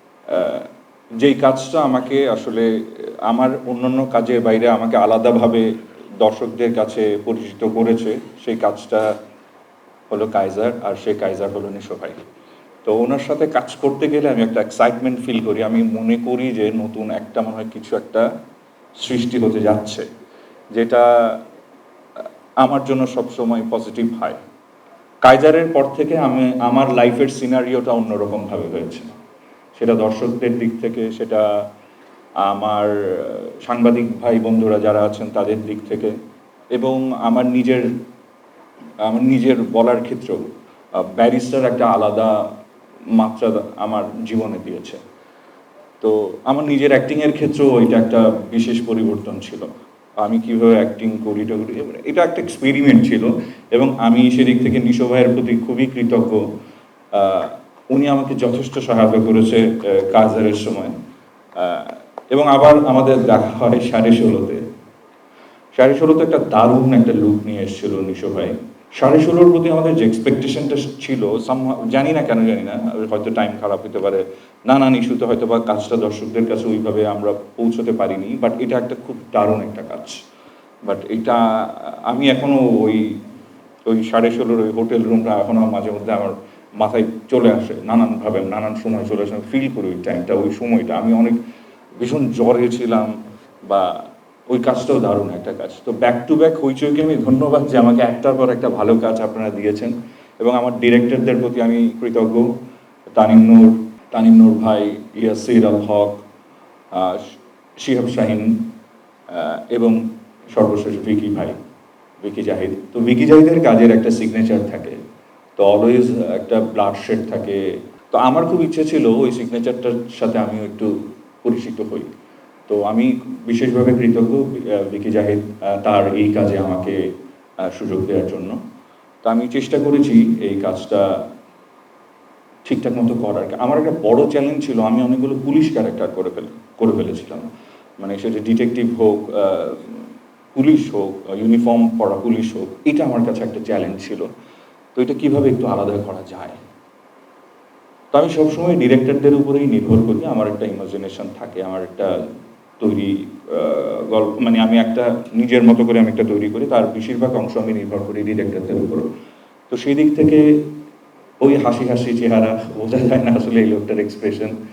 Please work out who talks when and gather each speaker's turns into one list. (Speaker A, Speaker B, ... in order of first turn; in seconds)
Speaker A: 0.3-0.7, 1.2-5.7, 6.2-9.1, 10.1-12.2, 12.8-18.3, 19.0-20.0, 20.7-21.4, 22.6-24.4, 25.2-29.1, 29.7-31.5, 32.4-36.1, 36.7-37.9, 39.0-40.4, 41.0-42.5, 43.1-45.0, 46.0-56.4, 57.1-61.0, 61.6-64.6, 65.7-80.2, 80.8-83.2, 83.9-91.4, 92.0-93.1, 93.7-102.5, 103.2-106.2, 106.9-108.7, 109.3-110.0, 110.5-111.5, 112.2-115.0, 115.6-120.9, 121.4-122.1, 122.7-127.0, 127.7-128.6, 129.2-131.2, 132.7-137.5, 138.0-144.3, 144.9-146.6, 148.1-152.2, 152.8-159.1, 159.7-160.7, 161.4-164.5